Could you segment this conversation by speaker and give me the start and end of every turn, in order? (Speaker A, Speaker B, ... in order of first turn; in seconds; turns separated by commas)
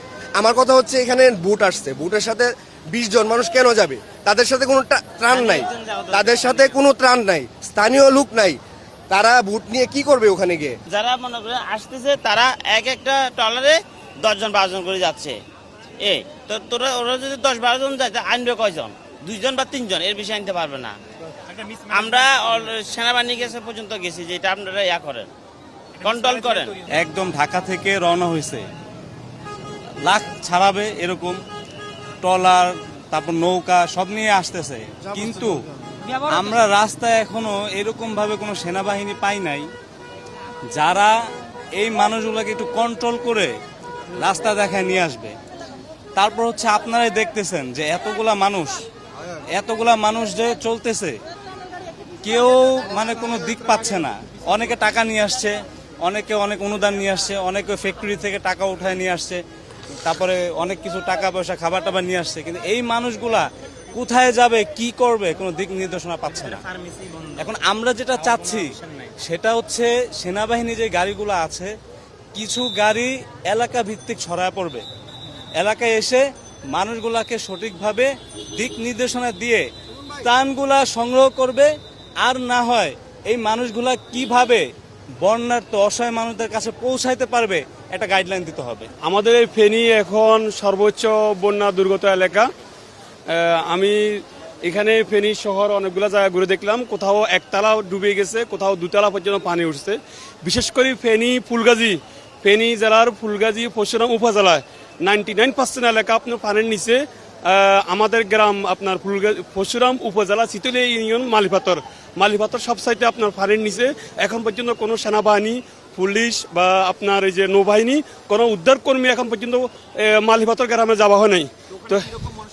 Speaker A: 0.4-8.6, Speaker B: 5.3-6.8, Speaker A: 9.1-10.7, Speaker B: 10.9-15.4, Speaker B: 16.0-20.9, Speaker B: 21.9-25.3, Speaker B: 26.0-26.8, Speaker C: 26.9-28.6, Speaker C: 30.0-31.4, Speaker C: 32.2-35.6, Speaker C: 36.2-39.7, Speaker C: 40.7-41.1, Speaker C: 41.8-43.5, Speaker C: 44.1-45.3, Speaker C: 46.2-48.8, Speaker C: 49.5-51.2, Speaker C: 52.2-59.4, Speaker C: 60.0-66.7, Speaker C: 67.3-71.7, Speaker C: 72.3-74.8, Speaker C: 75.6-79.7, Speaker C: 80.2-81.7, Speaker C: 82.2-84.7, Speaker C: 85.2-88.9, Speaker D: 89.0-92.5, Speaker D: 93.3-122.2